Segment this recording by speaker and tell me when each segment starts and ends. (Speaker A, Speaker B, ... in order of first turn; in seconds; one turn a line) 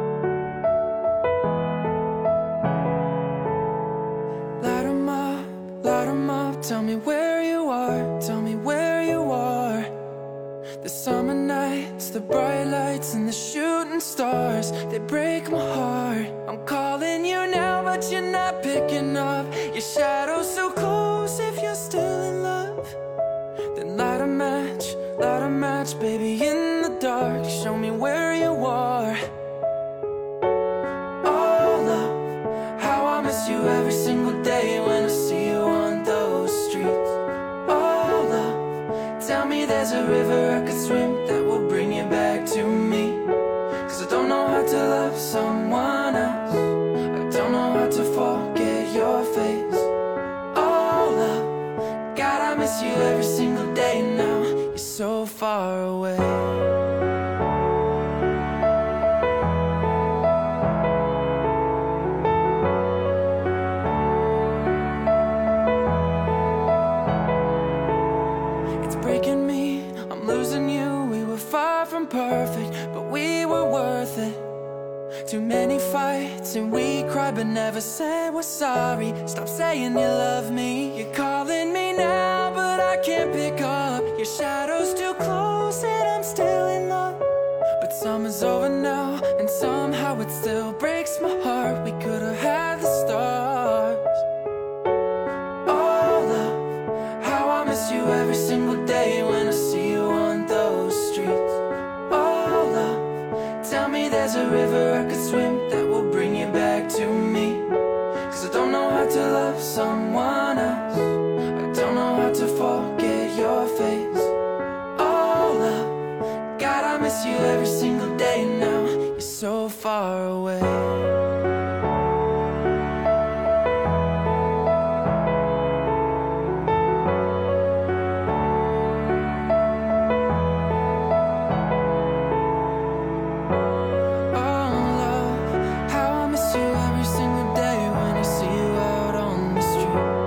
Speaker A: 4.6-9.9
Speaker A: 10.8-22.9
Speaker A: 23.8-29.2
Speaker A: 31.2-43.3
Speaker A: 43.8-49.9
Speaker A: 50.5-51.6
Speaker A: 52.1-56.6
Speaker A: 68.8-74.5
Speaker A: 75.3-87.2
Speaker A: 87.8-94.2
Speaker A: 95.7-107.7
Speaker A: 108.3-114.3
Speaker A: 115.0-116.0
Speaker A: 116.5-121.1
Speaker A: 134.3-140.1